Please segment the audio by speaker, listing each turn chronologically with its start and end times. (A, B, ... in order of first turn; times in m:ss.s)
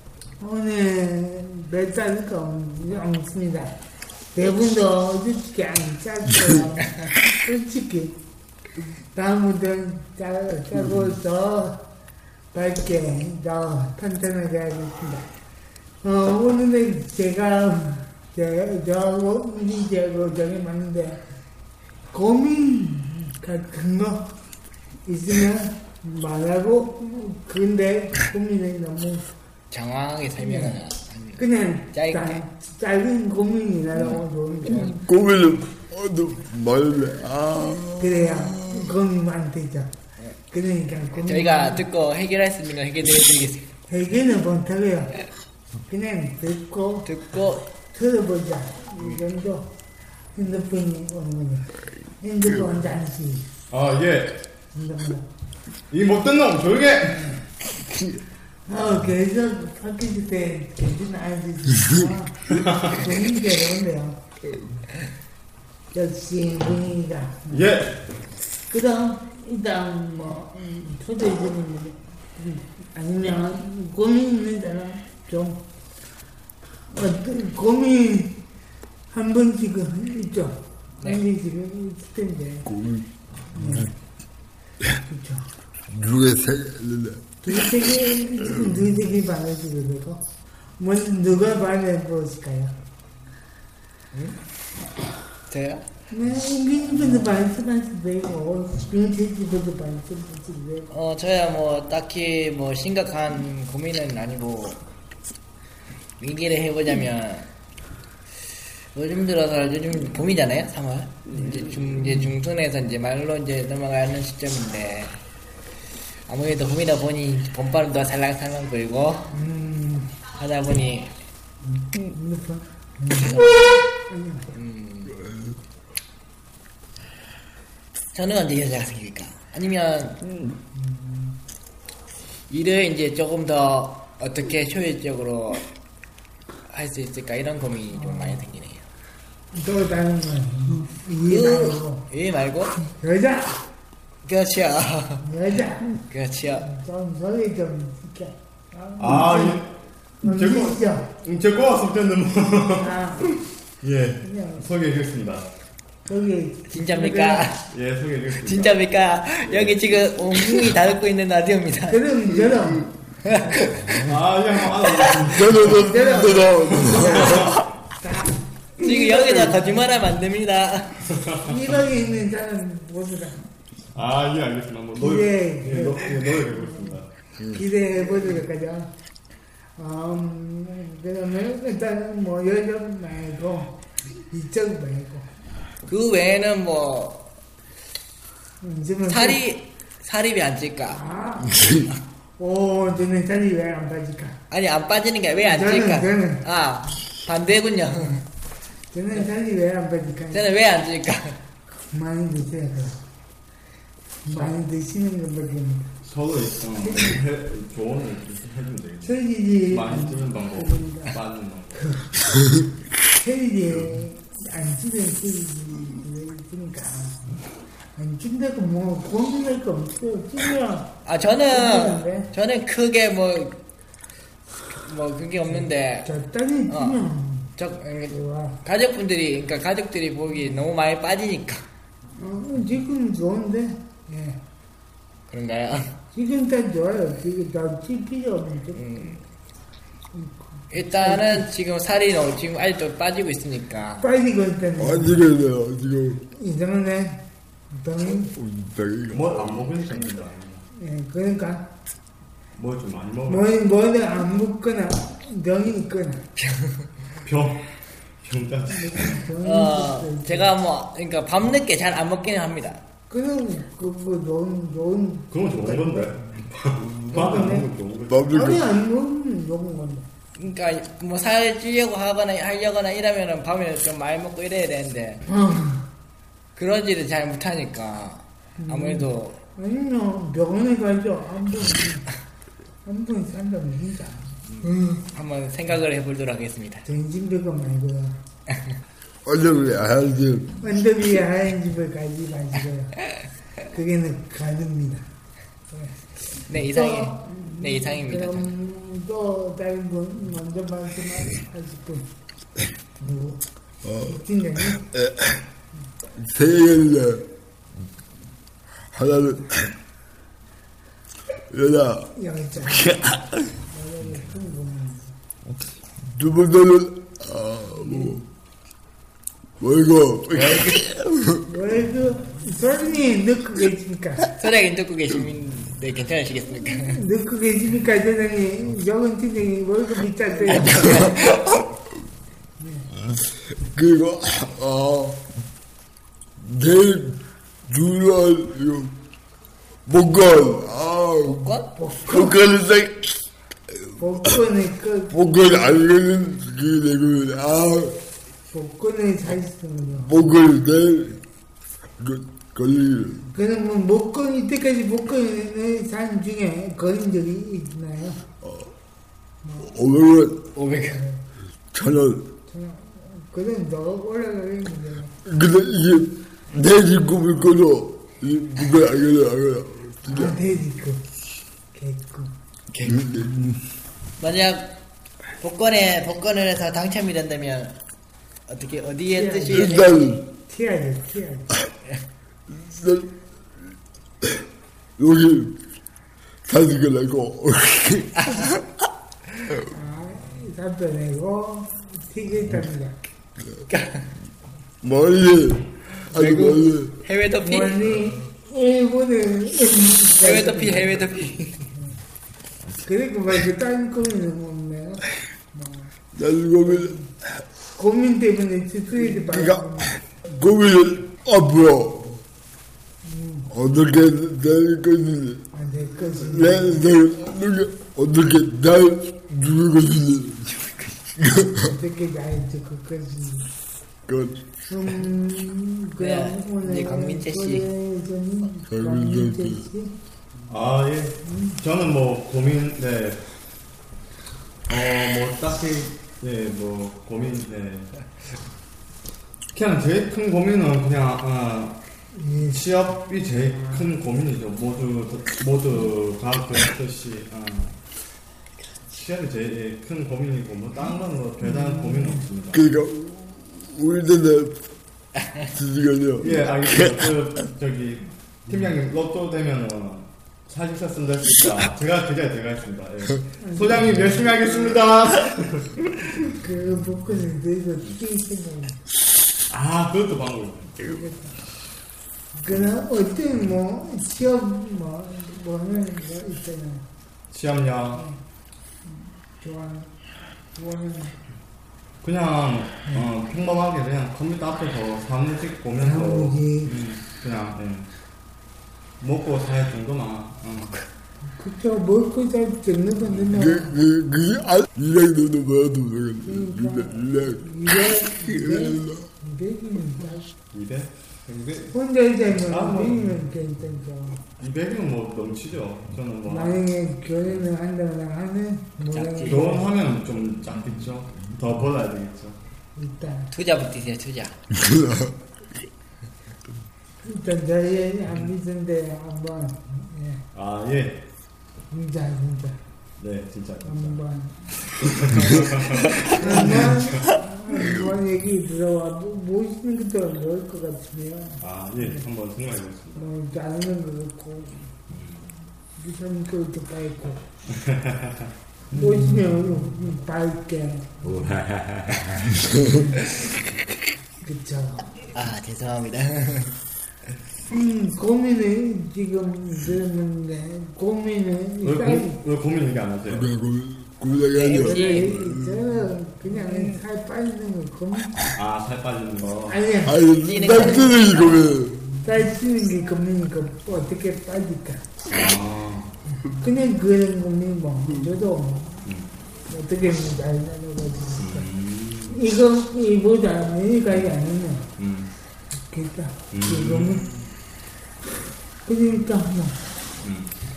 0:00.4-0:03.8 A
0:04.3-0:08.2 A
0:09.1-0:11.8 A
0:12.5-0:15.3 A
0:16.0-0:21.2 A
0:22.1-0:24.3 A
0:25.1-0:29.3 A
0:29.7-0:32.4 B
0:30.4-0:30.8 A
0:31.4-0:35.0 A
0:34.9-0:38.9 C
0:38.0-0:39.9 A
0:40.5-0:41.8 A
0:41.2-0:43.7 B
0:43.9-0:45.2 A
0:45.9-0:47.1 A
0:47.0-0:47.7 B
0:47.9-0:49.7 A
0:50.4-0:53.5 A
0:53.7-0:54.4 D
0:54.7-0:55.3 A
0:55.9-0:57.4 D
0:57.8-0:58.2 C
0:58.7-1:04.2 A
1:02.5-1:03.1 D
1:05.9-1:07.6 A
1:07.5-1:08.0 D
1:08.7-1:15.6 A
1:16.9-1:18.4 A
1:19.1-1:22.7 A
1:22.7-1:23.1 C
1:23.5-1:23.9 A
1:23.6-1:23.9 C
1:25.0-1:25.5 A
1:25.9-1:27.2 C
1:27.4-1:30.2 A
1:30.8-1:32.7 A
1:35.5-1:35.8 B
1:36.1-1:40.9 A
1:40.9-1:44.8 B
1:46.2-1:47.5 B
1:48.9-1:55.2 B
1:52.0-1:52.3 A
1:56.3-1:59.3 B
1:59.3-2:00.1 A
2:00.4-2:01.1 B
2:01.6-2:04.5 A
2:03.2-2:03.6 B
2:04.5-2:05.2 B
2:08.1-2:10.2 B
2:10.7-2:11.4 A
2:12.5-2:15.6 B
2:16.7-2:18.8 B
2:17.9-2:18.4 A
2:19.5-2:22.0 A
2:21.3-2:22.8 B
2:23.0-2:23.7 A
2:24.2-2:25.2 B
2:25.2-2:26.0 A
2:26.1-2:26.7 B
2:26.6-2:29.6 A
2:29.0-2:32.9 D
2:30.2-2:31.1 A
2:32.8-2:33.3 A
2:33.8-2:35.5 D
2:34.2-2:34.6 A
2:36.1-2:37.5 A
2:36.7-2:37.6 B
2:37.7-2:38.9 D
2:38.4-2:42.0 B
2:39.4-2:39.9 D
2:41.9-2:42.9 A
2:43.2-2:44.0 B
2:44.0-2:45.8 D
2:45.3-2:47.4 C
2:45.8-2:49.8 A
2:46.7-2:47.6 D
2:48.8-2:51.0 B
2:51.1-2:51.7 D
2:51.5-2:53.4 A
2:54.0-2:57.6 D
2:55.0-2:57.0 A
2:57.6-2:58.9 A
2:59.8-3:03.8 A
3:04.3-3:05.3 A
3:05.9-3:07.3 B
3:08.6-3:09.4 A
3:09.1-3:11.0 B
3:10.9-3:11.6 A
3:12.4-3:14.4 A
3:14.5-3:18.2 B
3:15.4-3:16.4 A
3:18.9-3:20.4 A
3:20.3-3:21.4 B
3:21.8-3:23.0 A
3:24.2-3:25.9 A
3:26.1-3:31.9 D
3:26.9-3:27.2 A
3:29.0-3:31.2 A
3:31.8-3:32.1 A
3:33.2-3:37.2 A
3:38.0-3:42.3 A
3:41.1-3:43.6 B
3:44.7-3:46.1 B
3:45.5-3:47.5 A
3:46.7-3:47.0 B
3:47.6-3:51.6 B
3:48.1-3:48.6 A
3:52.2-3:54.4 A
3:55.3-3:56.0 B
3:56.1-3:59.2 A
3:58.8-3:59.2 B
4:00.1-4:01.5 A
4:00.7-4:04.0 B
4:04.0-4:05.2 A
4:04.8-4:06.2 C
4:06.3-4:08.3 A
4:08.3-4:09.6 C
4:09.1-4:10.6 D
4:10.8-4:11.7 A
4:12.6-4:13.5 D
4:13.3-4:16.3 A
4:16.4-4:16.8 B
4:17.2-4:17.7 D
4:18.2-4:19.2 D
4:18.7-4:20.5 A
4:19.4-4:22.8 B
4:23.1-4:26.2 A
4:25.3-4:28.3 D
4:26.8-4:27.5 C
4:27.1-4:27.7 A
4:28.1-4:28.6 C
4:28.3-4:30.1 A
4:30.4-4:35.2 B
4:35.3-4:35.9 A
4:36.6-4:39.4 B
4:38.6-4:42.1 A
4:42.8-4:45.0 A
4:45.1-4:46.8 B
4:46.9-4:48.2 A
4:49.2-4:50.5 C
4:50.6-4:53.0 A
4:53.7-4:55.1 A
4:55.7-5:02.1 A
4:56.5-4:58.5 B
5:03.0-5:03.4 A
5:03.8-5:05.4 C
5:04.0-5:04.8 A
5:06.2-5:07.2 C
5:08.9-5:09.7 C
5:11.5-5:12.1 C
5:12.2-5:12.9 A
5:12.8-5:13.2 C
5:13.7-5:15.1 A
5:16.0-5:18.2 C
5:17.8-5:18.2 A
5:19.6-5:21.2 C
5:20.4-5:20.8 B
5:21.5-5:24.3 A
5:24.4-5:27.0 B
5:26.6-5:31.1 A
5:30.5-5:31.4 B
5:32.6-5:32.9 A
5:33.7-5:35.2 C
5:36.4-5:38.9 C
5:39.9-5:41.5 C
5:41.3-5:41.7 B
5:41.7-5:42.4 A
5:42.0-5:43.2 C
5:44.0-5:45.1 A
5:45.1-5:48.0 C
5:48.5-5:50.2 A
5:50.0-5:51.2 C
5:52.0-5:53.3 C
5:53.3-5:58.2 A
5:58.4-5:58.7 C
5:59.4-5:59.7 A
5:59.6-6:00.5 C
6:00.6-6:01.0 B
6:00.9-6:01.2 A
6:01.7-6:02.3 C
6:02.5-6:05.1 A
6:05.2-6:10.4 C
6:10.1-6:11.0 A
6:11.7-6:12.3 A
6:12.7-6:13.0 B
6:12.8-6:13.6 C
6:14.2-6:14.7 B
6:15.4-6:17.8 B
6:18.5-6:20.2 B
6:19.1-6:19.9 A
6:19.5-6:20.2 C
6:20.5-6:21.5 A
6:22.5-6:23.1 C
6:25.0-6:25.6 C
6:26.4-6:28.6 C
6:29.7-6:33.1 A
6:33.7-6:34.1 B
6:34.8-6:36.9 C
6:36.1-6:37.8 B
6:37.4-6:41.0 A
6:40.2-6:41.6 B
6:42.8-6:45.9 A
6:46.1-6:47.0 C
6:46.7-6:47.0 A
6:47.8-6:50.0 A
6:49.1-6:52.2 C
6:53.0-6:53.5 A
6:53.5-6:55.4 C
6:55.5-6:56.8 A
6:56.2-7:00.5 C
7:01.2-7:01.7 C
7:01.7-7:03.5 A
7:04.1-7:04.4 C
7:04.7-7:09.9 A
7:06.0-7:07.7 B
7:08.7-7:09.6 C
7:10.5-7:13.2 D
7:11.2-7:11.6 A
7:14.7-7:17.9 D
7:19.5-7:21.8 D
7:22.2-7:22.6 A
7:22.5-7:27.8 D
7:28.9-7:32.7 D
7:31.4-7:32.2 A
7:32.5-7:34.6 C
7:35.5-7:37.1 C
7:36.2-7:45.9 D
7:43.4-7:44.2 A
7:46.1-7:48.8 A
7:49.5-7:50.9 D
7:50.8-7:51.4 A
7:52.4-7:56.8 A
7:57.3-7:58.0 D
7:58.8-7:59.9 A
8:00.6-8:01.2 A
8:02.0-8:07.9 D
8:05.8-8:06.7 A
8:09.0-8:10.8 D
8:11.3-8:13.8 A
8:13.3-8:19.1 C
8:16.2-8:20.3 A
8:20.5-8:21.7 D
8:21.7-8:24.2 A
8:22.3-8:23.2 D
8:24.4-8:26.6 D
8:26.3-8:29.6 A
8:28.9-8:29.6 B
8:29.3-8:32.4 D
8:32.8-8:33.3 A
8:33.3-8:34.4 B
8:34.5-8:35.1 C
8:37.0-8:40.2 A
8:40.3-8:41.0 D
8:41.7-8:42.6 A
8:43.0-8:44.0 D
8:43.6-8:44.4 A
8:44.7-8:47.0 D
8:46.1-8:52.0 A
8:51.4-8:53.1 D
8:53.0-8:54.7 A
8:54.9-8:55.2 D
8:55.8-8:57.2 A
8:57.5-8:58.3 D
8:58.7-9:01.0 A
9:01.0-9:02.4 D
9:04.2-9:04.9 A
9:05.1-9:06.6 B
9:07.5-9:12.2 A
9:11.6-9:13.3 D
9:13.1-9:15.6 C
9:14.4-9:15.2 B
9:14.6-9:18.1 A
9:16.4-9:16.7 B
9:18.3-9:19.6 D
9:19.5-9:20.0 A
9:19.8-9:21.8 C
9:20.2-9:21.5 B
9:22.0-9:24.8 A
9:25.1-9:25.9 D
9:26.3-9:28.8 A
9:28.8-9:29.1 D
9:29.5-9:31.5 A
9:31.2-9:32.2 D
9:32.1-9:34.6 A
9:34.8-9:35.1 D
9:35.6-9:37.1 A
9:36.3-9:37.3 D
9:38.7-9:39.6 A
9:40.0-9:40.3 D